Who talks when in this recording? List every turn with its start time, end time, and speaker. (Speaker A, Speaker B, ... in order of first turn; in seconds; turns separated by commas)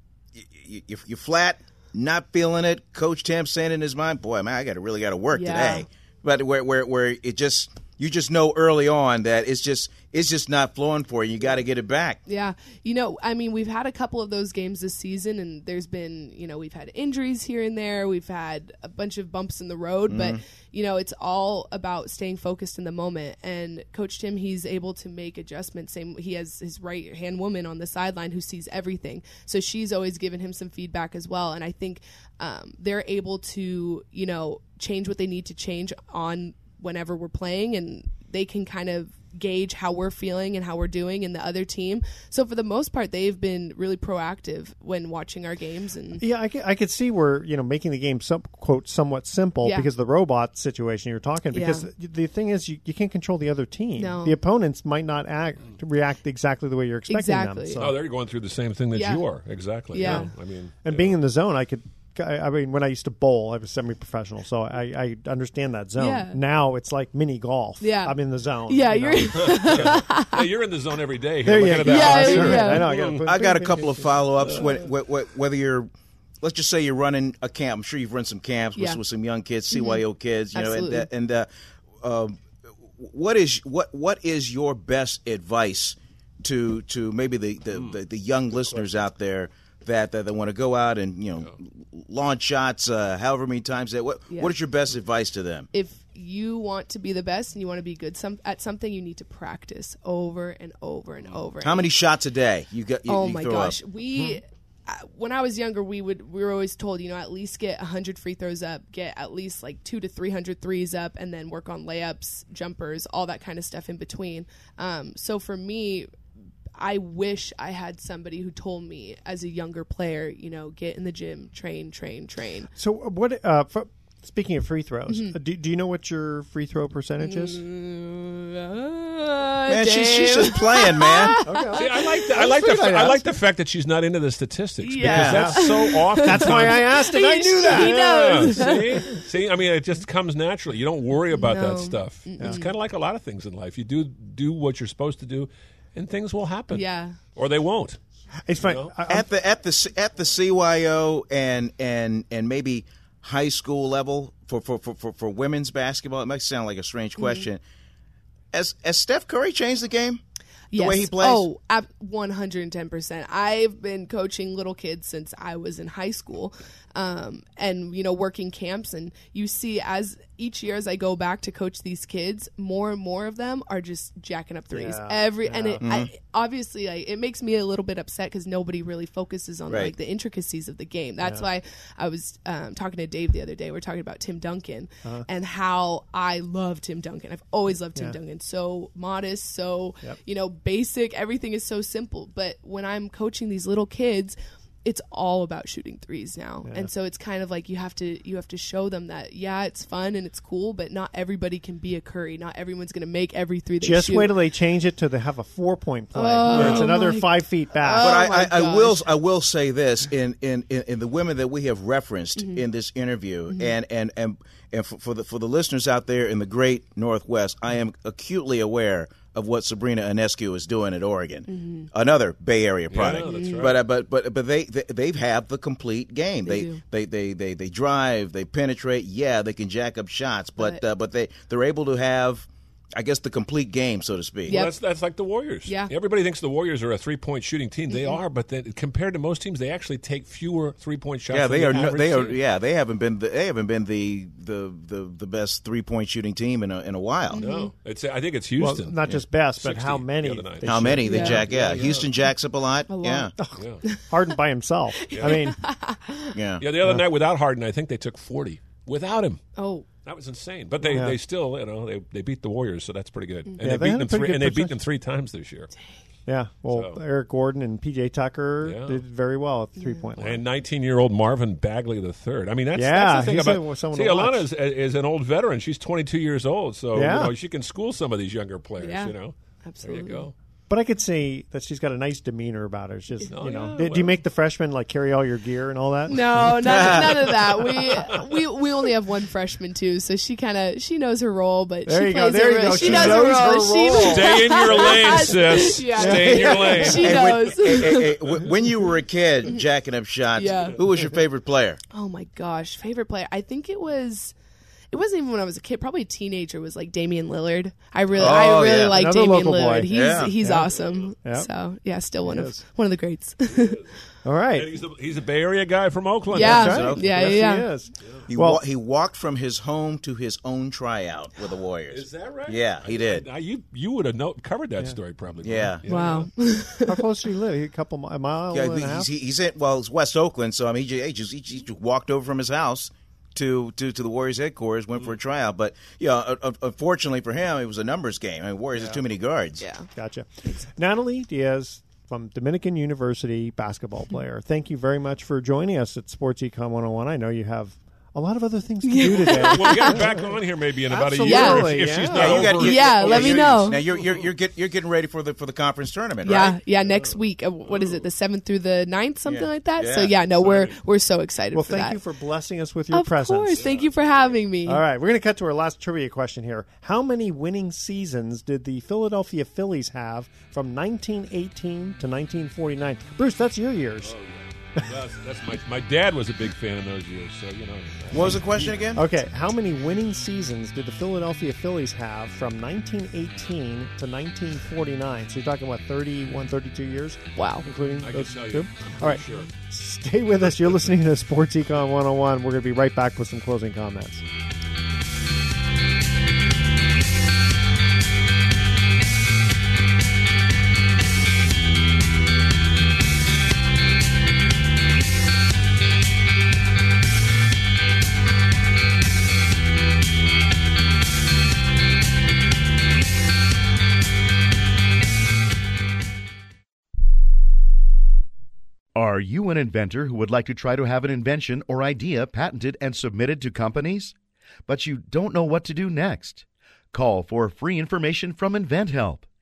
Speaker A: 0.5-12.2, Speaker B: 5.3-5.8, Speaker B: 12.2-46.2, Speaker A: 20.1-20.4, Speaker C: 46.2-58.0, Speaker B: 51.5-51.9, Speaker B: 54.0-54.4, Speaker B: 57.1-57.9, Speaker D: 57.8-61.1, Speaker B: 58.9-59.2, Speaker B: 59.9-60.3, Speaker C: 60.0-60.3, Speaker C: 60.8-70.0, Speaker B: 66.0-66.4, Speaker B: 67.8-70.4, Speaker D: 69.4-73.9, Speaker C: 71.4-74.6, Speaker B: 71.8-72.9, Speaker A: 73.2-75.9, Speaker D: 74.4-74.7, Speaker A: 76.4-81.5, Speaker B: 79.7-80.0, Speaker B: 80.5-81.1, Speaker A: 82.0-82.4, Speaker A: 83.0-95.7, Speaker B: 95.7-101.9, Speaker A: 101.6-103.8, Speaker B: 103.1-116.1, Speaker B: 116.8-122.7, Speaker C: 122.8-127.6, Speaker B: 125.1-125.3, Speaker B: 127.2-132.1, Speaker A: 129.7-131.4, Speaker C: 131.4-133.2, Speaker D: 131.7-136.9, Speaker B: 134.8-139.2, Speaker C: 135.0-138.8, Speaker A: 135.1-135.4, Speaker D: 137.6-148.0, Speaker B: 141.3-142.7, Speaker B: 146.7-147.2, Speaker C: 148.4-149.3, Speaker D: 148.6-148.9, Speaker A: 149.1-157.6, Speaker B: 157.2-157.5, Speaker A: 158.5-160.2, Speaker B: 160.7-204.3, Speaker A: 160.7-161.5, Speaker C: 174.7-175.8, Speaker A: 175.8-176.1, Speaker A: 179.7-179.9, Speaker C: 181.2-181.5, Speaker C: 196.6-196.9, Speaker C: 203.8-208.2, Speaker B: 206.1-209.1, Speaker A: 208.0-234.6, Speaker B: 212.3-212.6, Speaker B: 221.5-221.9, Speaker D: 222.9-223.8, Speaker B: 223.1-223.7, Speaker B: 226.4-226.8, Speaker B: 234.5-234.8, Speaker D: 234.5-242.4, Speaker B: 235.7-235.9, Speaker B: 237.9-238.2, Speaker A: 241.3-247.4, Speaker B: 247.3-247.7, Speaker D: 247.4-252.1, Speaker C: 248.6-251.8, Speaker A: 250.6-253.3, Speaker B: 251.0-251.4, Speaker B: 252.9-253.3, Speaker C: 253.4-255.6, Speaker D: 253.6-253.8, Speaker B: 255.0-256.3, Speaker D: 255.1-255.4, Speaker A: 256.3-256.6, Speaker D: 256.6-259.4, Speaker B: 259.6-259.9, Speaker D: 260.0-265.7, Speaker C: 260.9-261.2, Speaker C: 263.6-264.8, Speaker C: 266.2-270.4, Speaker D: 266.7-267.0, Speaker D: 268.6-269.0, Speaker B: 269.8-270.1, Speaker D: 270.2-280.3, Speaker C: 272.7-274.5, Speaker C: 276.9-277.3, Speaker B: 278.8-280.3, Speaker C: 280.7-287.0, Speaker B: 283.3-283.8, Speaker D: 283.3-284.2, Speaker B: 286.1-298.1, Speaker A: 286.6-287.4, Speaker D: 287.6-288.1, Speaker C: 291.9-297.1, Speaker D: 292.8-293.2, Speaker D: 293.9-298.4, Speaker A: 297.0-301.8, Speaker B: 300.4-300.8, Speaker B: 301.9-304.3, Speaker B: 304.9-313.8, Speaker C: 308.2-310.7, Speaker A: 308.2-308.9, Speaker A: 309.9-310.3, Speaker C: 311.2-311.5, Speaker C: 312.2-312.6, Speaker D: 313.5-313.9, Speaker C: 314.2-314.8, Speaker D: 314.5-316.9, Speaker B: 316.3-317.7, Speaker C: 316.3-318.6, Speaker A: 316.4-317.4, Speaker A: 318.3-323.2, Speaker D: 321.9-326.3, Speaker A: 325.4-325.8, Speaker B: 325.8-327.0, Speaker C: 326.9-329.1, Speaker A: 328.5-339.6, Speaker C: 338.8-339.0, Speaker B: 339.6-339.9, Speaker C: 339.9-352.6, Speaker B: 348.8-350.0, Speaker D: 349.1-354.3, Speaker B: 351.2-351.9, Speaker A: 352.1-356.6, Speaker B: 352.6-353.8, Speaker B: 356.2-362.0, Speaker D: 356.8-358.0, Speaker A: 359.2-360.1, Speaker D: 360.3-360.8, Speaker C: 361.5-363.7, Speaker B: 362.9-364.8, Speaker D: 363.5-364.4, Speaker C: 364.6-374.1, Speaker D: 374.0-378.8, Speaker A: 378.1-379.0, Speaker C: 378.2-394.2, Speaker B: 387.4-387.6, Speaker D: 388.0-389.5, Speaker E: 418.9-424.1, Speaker E: 424.7-429.2